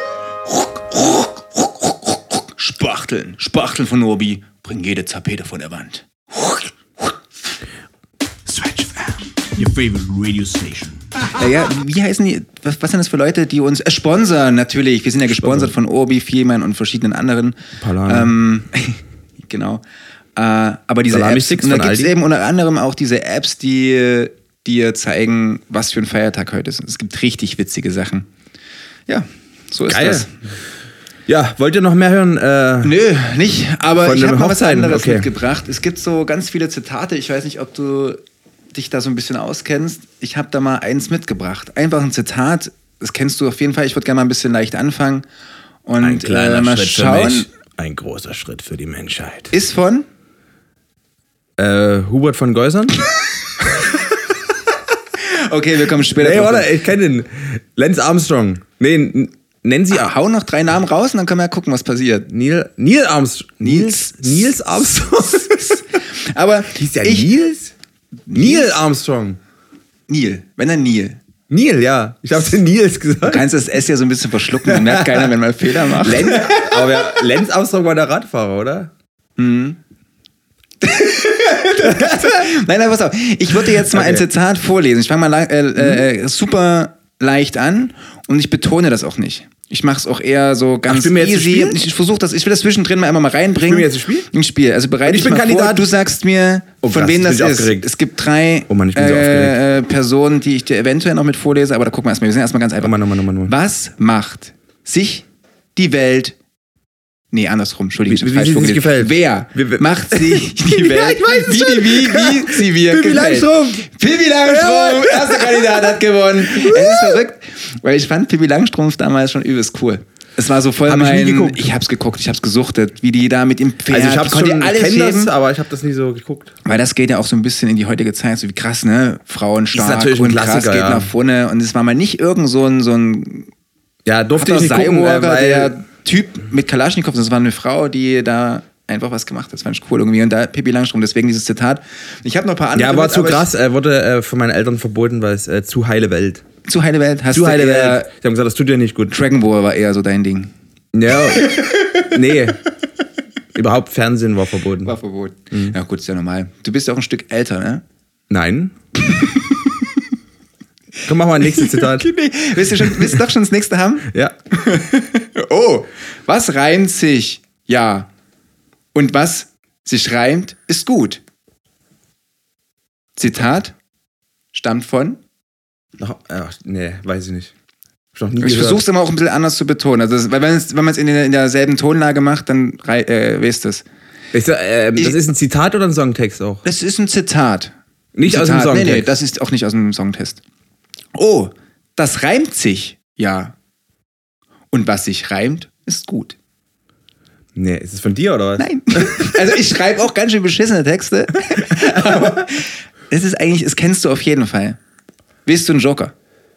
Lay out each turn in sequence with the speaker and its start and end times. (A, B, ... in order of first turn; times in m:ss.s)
0:00.5-0:07.2 A
0:08.5-0:08.9 B
0:09.5-0:11.3 B
0:11.3-0:19.8 A
0:15.3-0:15.7 C
0:17.8-0:18.3 C
0:20.4-0:28.3 A
0:21.1-0:22.1 C
0:29.1-0:30.3 A
0:29.8-0:30.3 C
0:31.3-0:32.9 C
0:32.8-0:38.2 A
0:34.0-0:35.3 C
0:38.7-0:45.2 A
0:45.8-0:47.5 A
0:46.0-0:49.5 C
0:49.5-0:50.0 A
0:51.6-0:53.0 C
0:55.2-0:56.7 A
0:56.1-1:00.1 C
0:59.9-1:02.3 A
1:02.3-1:05.8 C
1:03.6-1:04.6 A
1:05.3-1:07.3 A
1:06.7-1:07.7 C
1:08.3-1:08.7 A
1:08.3-1:09.4 C
1:10.1-1:11.2 A
1:11.5-1:13.4 C
1:13.2-1:17.2 A
1:14.7-1:15.3 C
1:15.8-1:18.9 C
1:19.4-1:19.8 A
1:20.8-1:42.9 A
1:21.8-1:22.3 C
1:23.8-1:24.2 C
1:30.9-1:31.8 C
1:33.7-1:34.3 C
1:35.0-1:35.9 C
1:36.8-1:37.9 C
1:38.7-1:39.6 C
1:42.8-1:43.5 C
1:43.4-1:46.4 A
1:47.3-2:05.3 A
1:48.1-1:53.9 C
1:54.4-1:55.8 C
1:56.5-1:57.1 C
2:00.8-2:01.7 C
2:03.9-2:06.5 C
2:06.6-2:13.5 A
2:09.7-2:11.1 C
2:14.0-2:15.7 C
2:14.3-2:23.5 A
2:22.7-2:26.4 C
2:26.6-2:28.1 A
2:27.3-2:29.1 C
2:29.1-2:30.5 A
2:30.9-2:32.6 C
2:31.2-2:32.1 A
2:33.5-2:34.9 C
2:34.8-2:37.8 A
2:38.3-2:38.7 C
2:39.0-2:40.0 A
2:41.0-2:42.1 C
2:41.4-2:48.1 A
2:48.9-2:51.2 A
2:53.2-2:53.7 A
2:54.5-2:55.2 A
2:56.0-2:57.5 C
2:58.1-2:58.8 C
2:58.4-3:03.8 A
3:04.3-3:06.6 C
3:06.6-3:07.7 A
3:08.1-3:09.1 C
3:08.2-3:10.4 A
3:11.1-3:13.5 A
3:14.7-3:16.4 A
3:17.6-3:19.5 C
3:18.6-3:24.8 A
3:25.4-3:26.1 A